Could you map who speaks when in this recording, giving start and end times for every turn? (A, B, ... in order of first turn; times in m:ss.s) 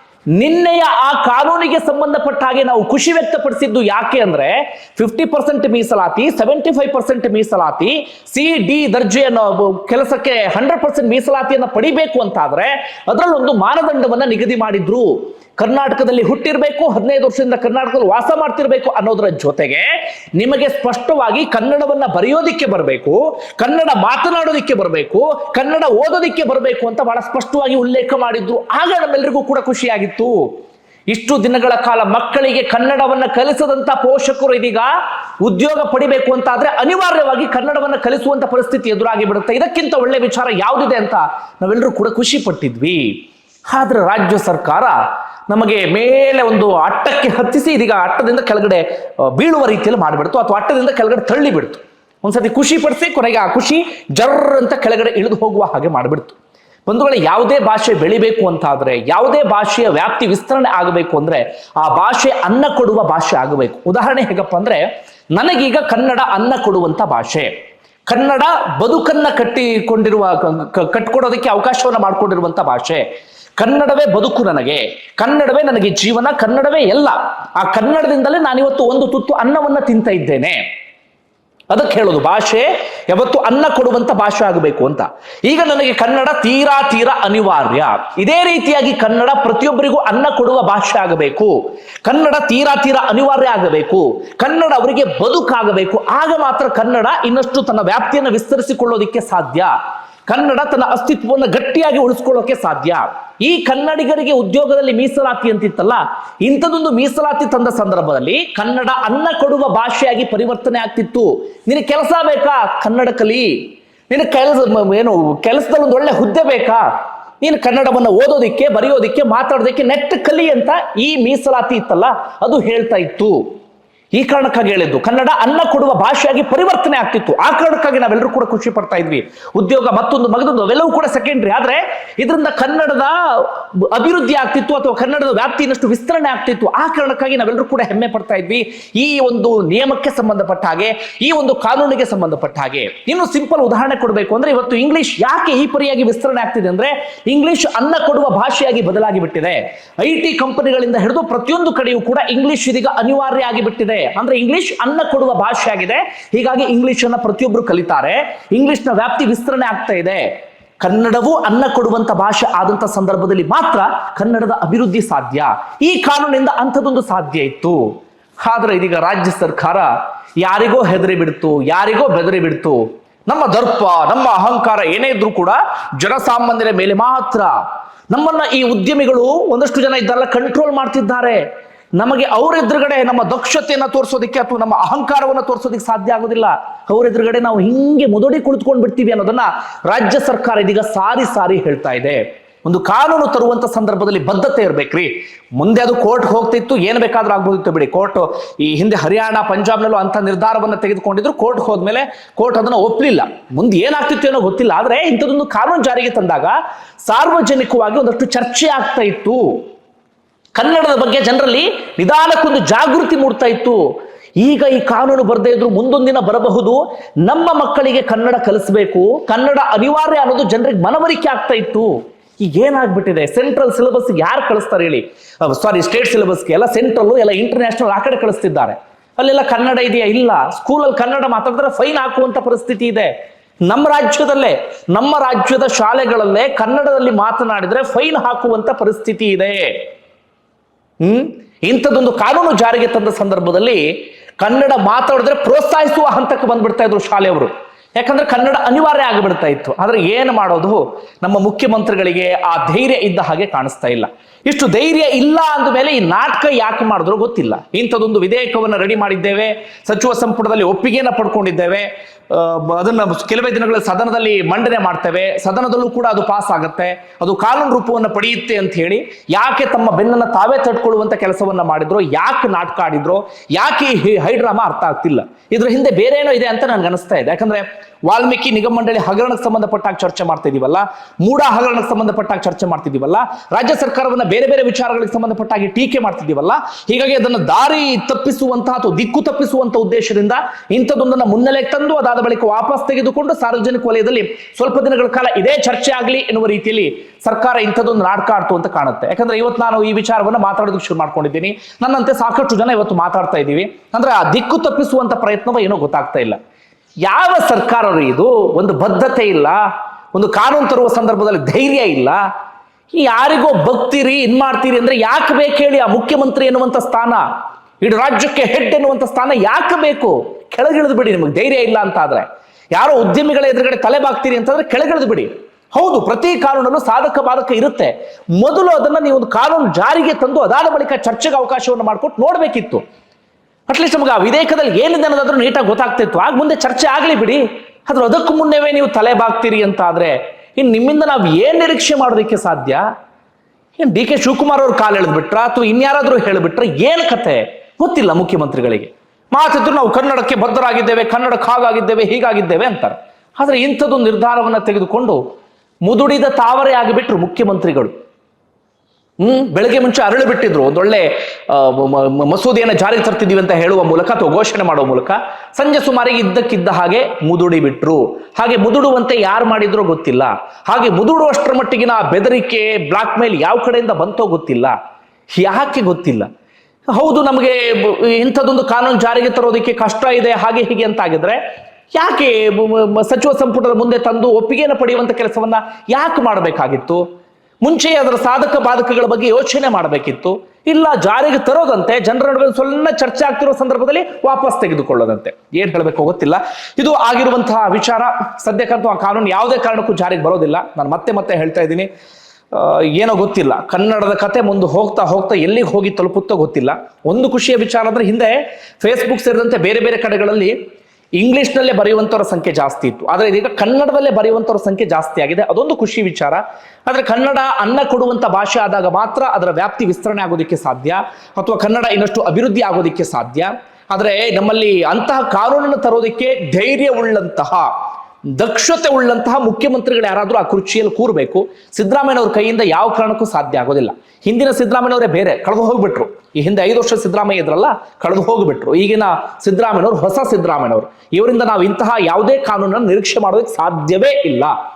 0:00.3-0:30.5 A
0:31.1-0:34.9 A
0:35.4-0:45.0 A
0:45.5-1:07.5 A
1:08.1-1:13.0 A
1:13.6-1:20.6 A
1:21.7-1:39.7 A
1:40.3-1:56.8 A
1:57.4-2:03.5 A
2:04.1-2:40.3 A
2:40.8-2:57.5 A
2:58.1-3:29.6 A
3:30.6-3:33.8 A
3:34.4-3:53.1 A
3:53.7-3:59.8 A
4:01.0-5:06.4 A
5:07.0-5:09.6 A
5:10.1-5:12.2 A
5:12.9-5:17.2 A
5:17.8-5:32.8 A
5:33.7-5:42.8 A
5:43.8-5:55.2 A
5:55.8-5:57.9 A
5:59.2-6:14.8 A
6:15.3-6:16.3 A
6:16.9-6:21.4 A
6:21.9-6:27.0 A
6:27.6-6:41.9 A
6:42.5-6:50.6 A
6:51.2-7:07.7 A
7:08.3-7:24.5 A